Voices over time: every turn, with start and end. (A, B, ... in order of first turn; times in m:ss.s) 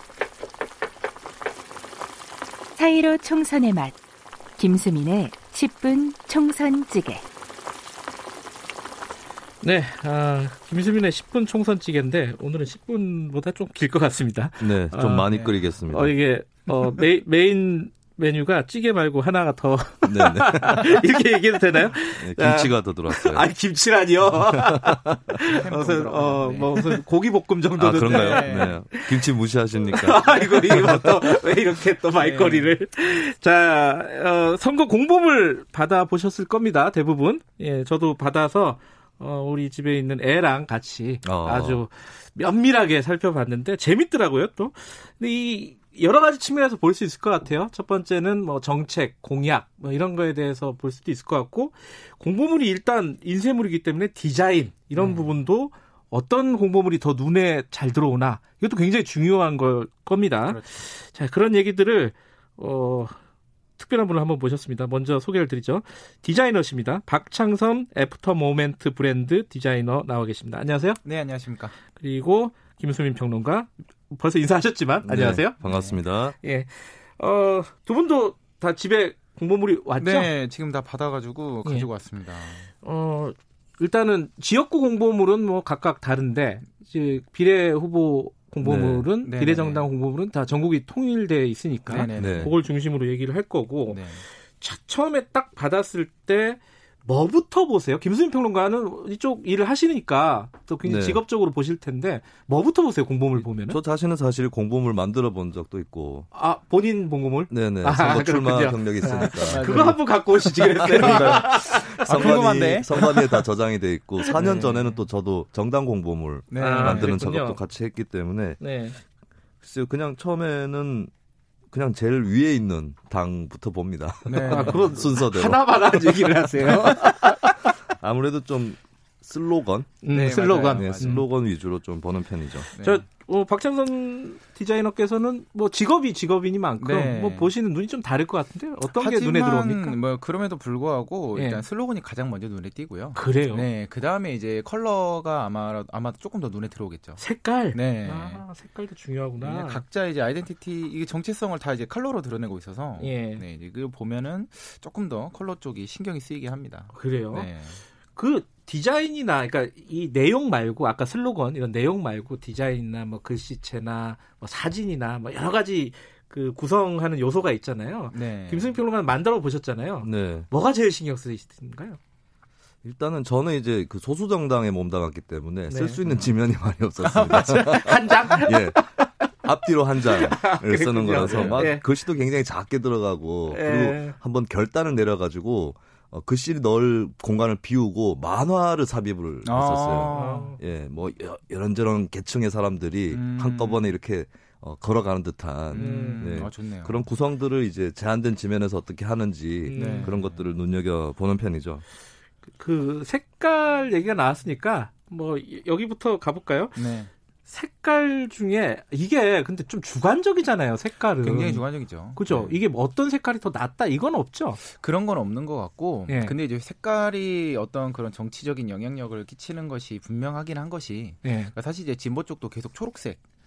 0:02.8-0:04.0 A
0:04.6-0:07.2 A
0:09.6-0:29.2 B
0:14.6-0:16.2 C
0:15.3-0:15.6 D
0:20.0-0:21.0 C
0:22.1-0:23.5 C
0:25.4-0:27.0 D
0:27.8-0:31.2 C
0:28.1-0:28.7 D
0:29.8-1:03.1 B
0:32.2-0:32.7 D
0:41.2-0:41.8 C
0:54.9-0:55.3 D
1:00.4-1:00.8 D
1:03.8-1:11.0 B
1:11.0-1:11.7 D
1:12.0-1:15.6 B
1:15.0-1:16.4 C
1:15.6-1:16.0 D
1:16.3-1:20.3 B
1:20.0-1:22.7 D
1:22.8-1:43.8 B
1:28.6-1:29.1 C
1:29.2-1:29.9 D
1:31.9-1:32.5 D
1:32.1-1:32.5 C
1:33.9-1:34.2 D
1:40.8-1:41.2 C
1:43.4-1:46.3 C
1:46.3-1:53.4 B
1:47.5-1:50.0 C
1:49.2-1:53.0 D
1:50.8-1:58.6 C
1:54.3-1:54.7 B
1:54.3-1:55.1 D
1:56.5-1:57.1 D
1:56.5-1:57.6 B
1:58.6-1:59.0 B
1:59.6-2:01.1 C
2:01.7-2:10.0 C
2:04.2-2:05.0 D
2:04.4-2:07.7 B
2:10.0-2:11.2 B
2:10.1-2:11.2 D
2:10.7-2:12.7 C
2:12.7-2:20.0 B
2:12.8-2:13.0 D
2:16.8-2:17.5 D
2:18.9-2:28.4 D
2:21.3-2:21.6 B
2:23.1-2:23.7 B
2:27.2-2:29.8 B
2:29.4-2:37.8 D
2:33.0-2:33.4 B
2:36.9-2:37.5 B
2:38.1-2:52.0 B
2:48.1-2:48.8 D
2:50.0-2:50.5 C
2:52.8-2:58.8 C
2:55.7-2:56.0 B
2:57.0-2:58.2 D
2:57.4-2:59.2 B
2:59.4-3:21.8 C
3:00.0-3:01.8 B
3:01.2-3:01.7 D
3:03.5-3:04.2 B
3:09.4-3:10.6 D
3:10.1-3:10.6 B
3:13.1-3:13.9 D
3:15.7-3:17.1 D
3:15.7-3:16.4 B
3:19.6-3:20.1 B
3:19.7-3:20.4 D
3:22.6-3:26.8 B
3:26.8-3:27.1 D
3:27.5-3:34.6 B
3:31.2-3:32.6 D
3:34.6-3:43.2 D
3:36.1-3:36.3 B
3:41.2-3:41.5 B